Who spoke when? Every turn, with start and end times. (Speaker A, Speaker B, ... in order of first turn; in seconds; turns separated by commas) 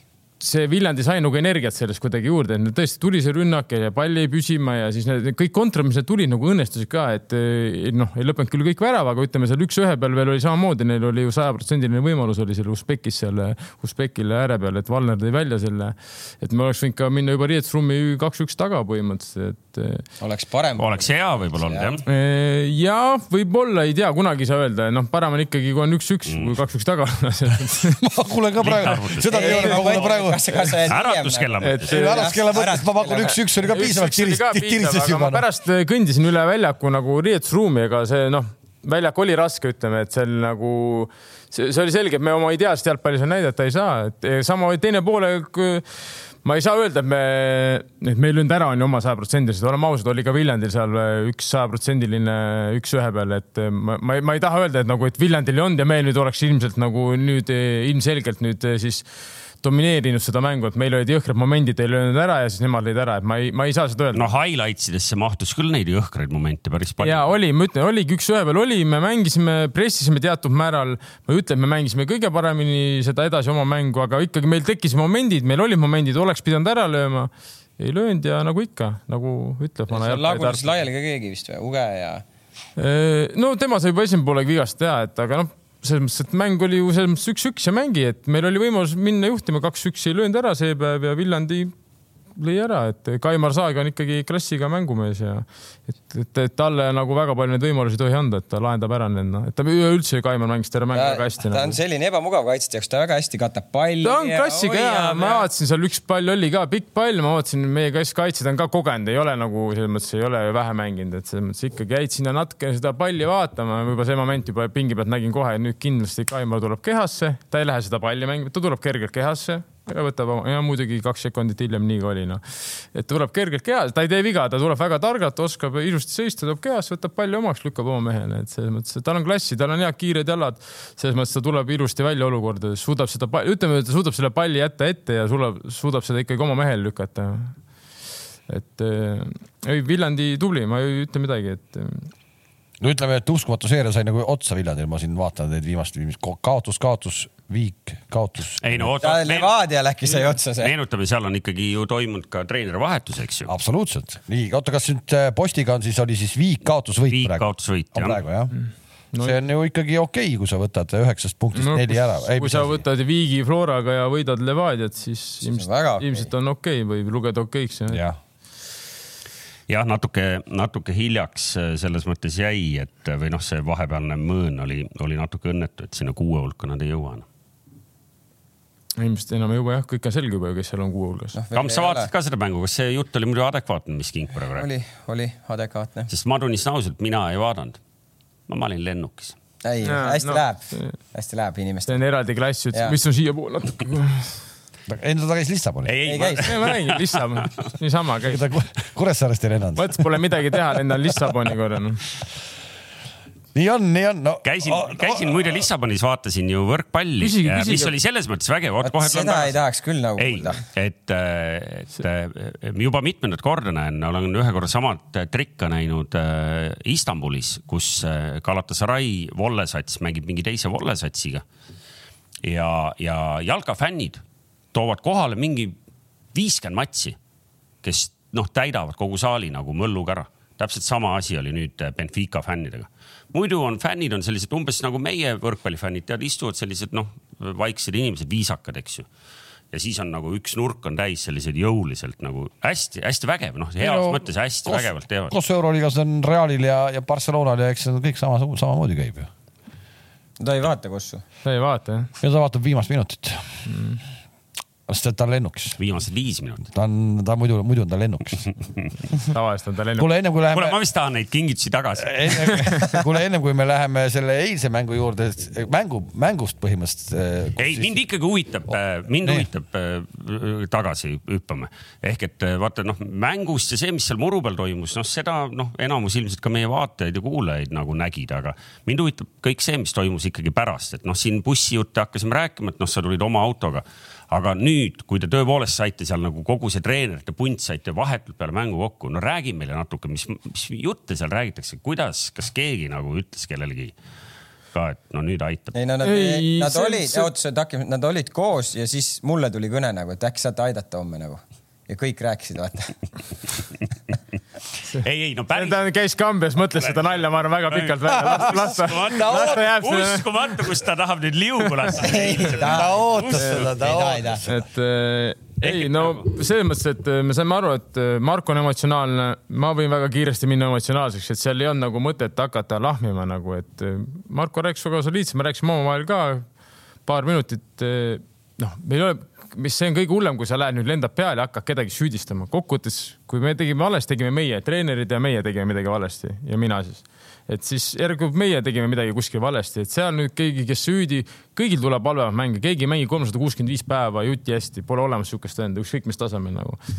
Speaker A: 0.4-20.0, Speaker B: 20.2-22.0, Speaker C: 20.8-22.0, Speaker A: 22.1-28.0, Speaker C: 26.3-26.5, Speaker D: 28.0-30.7, Speaker C: 28.6-30.0, Speaker B: 29.3-33.4, Speaker C: 30.9-32.0, Speaker A: 31.6-32.3, Speaker D: 31.9-35.4, Speaker A: 33.7-45.8, Speaker A: 46.4-59.0, Speaker A: 59.6-64.2, Speaker C: 64.1-67.3, Speaker A: 67.0-80.6, Speaker B: 79.9-82.2, Speaker A: 82.8-91.7, Speaker A: 92.4-101.8, Speaker B: 100.9-105.5, Speaker A: 104.0-122.4, Speaker A: 122.9-137.5, Speaker A: 138.5-142.1, Speaker D: 142.8-148.9, Speaker C: 148.6-149.5, Speaker B: 149.0-150.7, Speaker C: 150.1-153.5, Speaker D: 153.5-158.5, Speaker C: 157.1-158.2, Speaker A: 158.6-159.4, Speaker D: 159.2-162.8, Speaker A: 161.6-168.0, Speaker B: 165.4-166.3, Speaker D: 167.9-168.2, Speaker C: 169.7-177.2, Speaker A: 179.0-181.4, Speaker B: 181.3-182.1, Speaker C: 181.5-184.7, Speaker B: 184.5-186.1, Speaker C: 186.1-187.8, Speaker C: 188.5-189.4, Speaker B: 189.6-192.0, Speaker A: 189.8-191.0, Speaker A: 191.9-194.4, Speaker D: 194.9-195.9, Speaker C: 195.8-197.5, Speaker B: 196.1-196.5, Speaker A: 196.4-198.4, Speaker D: 198.2-200.1, Speaker A: 199.8-202.0, Speaker D: 203.6-205.6, Speaker C: 204.4-209.6, Speaker A: 207.2-207.9, Speaker B: 208.8-210.6, Speaker C: 210.2-221.4, Speaker C: 222.4-224.2, Speaker C: 224.7-225.7, Speaker C: 226.3-227.2, Speaker C: 227.8-239.1, Speaker C: 239.7-245.3, Speaker D: 243.8-249.3, Speaker B: 250.4-251.2, Speaker A: 251.4-252.1, Speaker D: 252.2-253.4, Speaker A: 253.7-254.0, Speaker D: 254.9-255.8, Speaker C: 255.8-256.7, Speaker D: 256.7-258.5, Speaker A: 259.3-260.1, Speaker D: 260.0-260.8, Speaker C: 260.5-262.8, Speaker D: 262.0-267.9, Speaker C: 267.6-293.9, Speaker C: 294.7-295.8, Speaker B: 295.7-302.9, Speaker A: 296.0-297.3, Speaker C: 304.9-305.8, Speaker A: 305.5-310.3, Speaker C: 306.8-307.1, Speaker C: 307.7-313.8, Speaker D: 308.1-309.6, Speaker A: 311.6-312.0, Speaker B: 311.9-314.4, Speaker D: 312.6-314.6, Speaker A: 314.4-326.5, Speaker C: 315.6-316.3, Speaker A: 327.1-346.8